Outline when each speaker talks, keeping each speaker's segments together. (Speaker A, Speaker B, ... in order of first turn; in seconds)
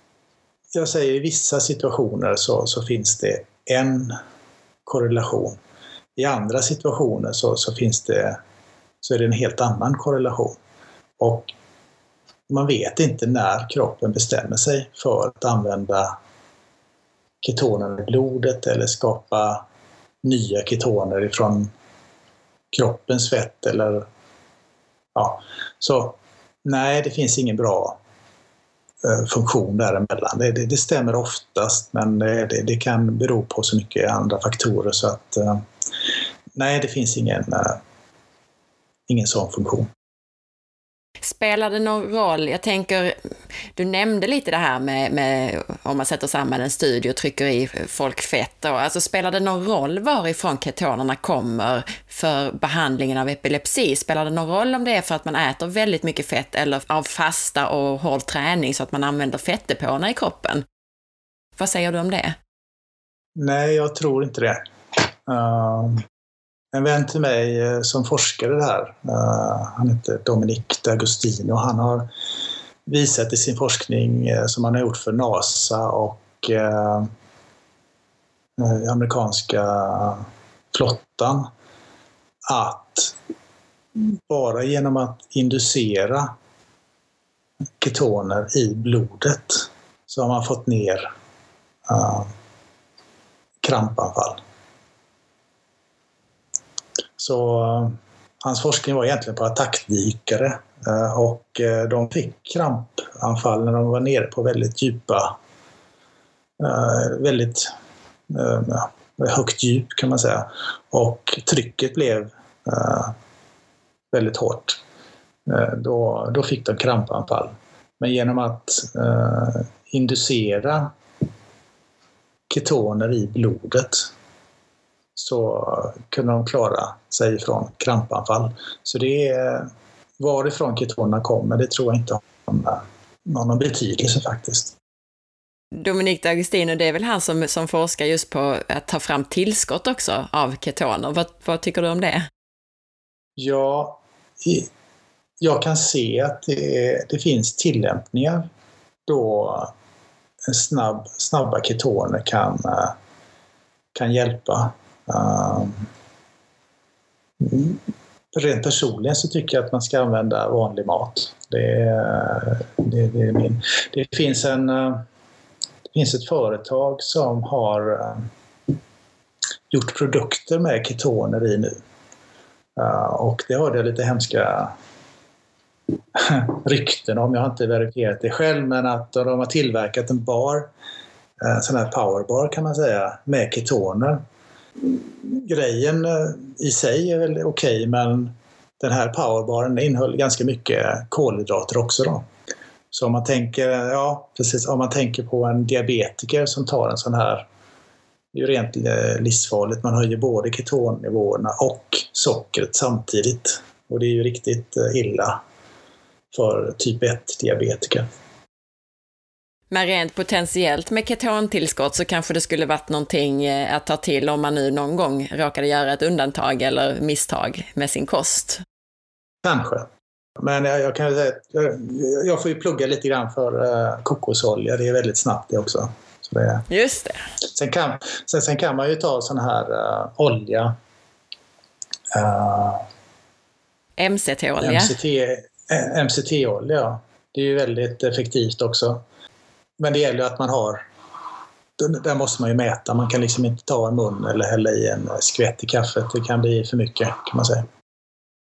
Speaker A: 0.7-4.2, 4.8-5.6, 6.2-8.4, 9.0-10.6, 11.2-11.5, 12.5-16.1, 17.4-19.6, 20.2-21.7, 22.7-24.0, 25.1-28.0, 29.0-35.6, 36.5-37.8, 39.1-39.9, 63.4-64.6, 65.2-66.0, 66.7-72.1, 72.8-77.1, 78.6-81.5, 82.5-83.1, 84.0-86.3, 87.8-91.1, 91.8-92.3, 93.6-94.4, 97.2-105.3, 106.6-107.7, 108.3-113.1, 114.1-114.8, 115.5-120.9, 122.5-124.1, 125.2-134.8, 143.4-144.7, 145.4-148.5, 149.1-149.7, 150.5-152.9, 153.9-155.8, 157.4-157.8, 158.3-165.0, 165.9-168.2, 169.7-171.7, 172.8-174.7, 176.1-180.7, 181.4-184.2, 184.8-192.2, 192.9-197.5, 198.3-205.4, 206.3-208.1, 219.4-219.9, 220.4-226.6, 227.5-230.7, 232.1-232.8, 234.6-239.0, 239.8-240.8, 241.8-247.6
Speaker B: 41.2-43.1, 43.8-60.6, 61.6-62.4, 135.8-142.3, 209.7-218.6, 226.7-227.2, 234.0-234.9